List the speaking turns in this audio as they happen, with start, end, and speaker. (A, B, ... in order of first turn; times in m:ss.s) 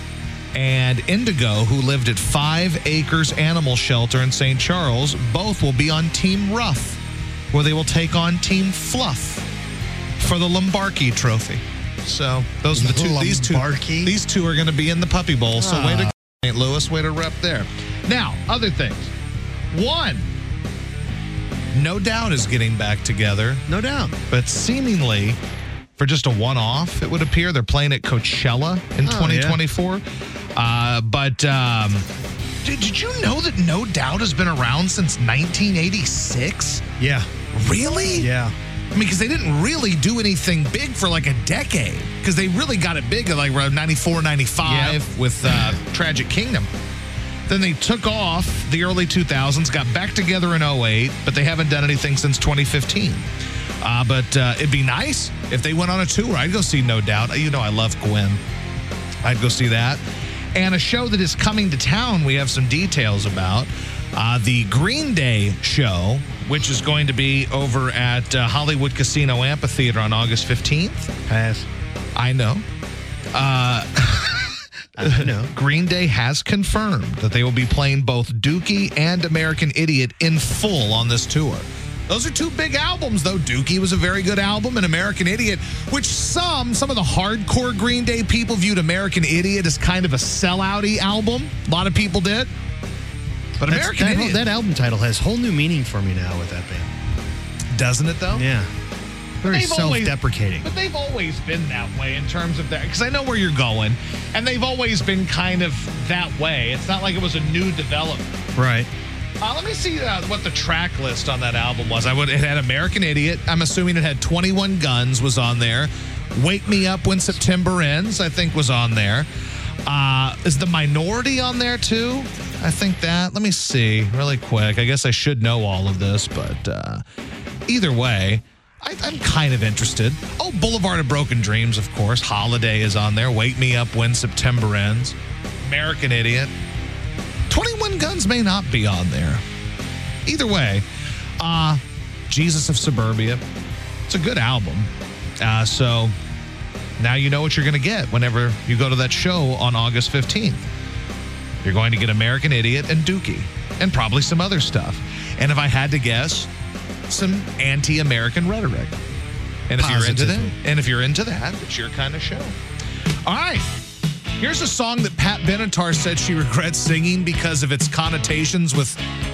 0:00.5-0:07.0 A
0:07.5-0:09.5 A
0:10.2-0:19.1 A
0:12.8-0:14.2 B
0:15.6-0:16.1 B
0:19.7-0:20.3 A
0:21.7-0:23.6 A
0:23.7-0:24.2 B
0:24.3-0:25.4 A
0:26.0-0:30.0 A
0:29.0-0:29.6 B
0:30.6-0:32.1 A
0:32.6-0:36.8 A
0:37.0-0:37.3 B
0:37.5-0:38.3 A
0:38.2-0:38.5 B
0:38.9-0:46.7 A
0:44.6-0:45.7 B
0:47.5-0:53.3 A
0:53.8-0:58.4 A
0:59.2-1:00.0 A
1:00.6-1:11.1 A
1:11.3-1:11.7 B
1:12.2-1:12.6 A
1:13.3-1:32.5 A
1:15.0-1:15.5 B
1:33.6-1:34.5 A
1:33.7-1:36.9 B
1:37.7-1:38.5 A
1:38.3-1:38.7 B
1:39.4-1:40.7 B
1:39.4-1:48.4 A
1:48.6-1:48.9 B
1:49.4-1:59.3 A
1:59.9-2:07.0 A
2:07.7-2:16.5 A
2:17.5-2:19.4 A
2:20.2-2:20.9 A
2:21.4-2:23.4 A
2:24.1-2:26.1 A
2:27.0-2:30.7 A
2:31.6-2:36.5 A
2:37.1-2:39.0 A
2:39.7-2:42.6 A
2:39.8-2:40.5 B
2:43.3-2:43.8 A
2:44.4-2:49.0 A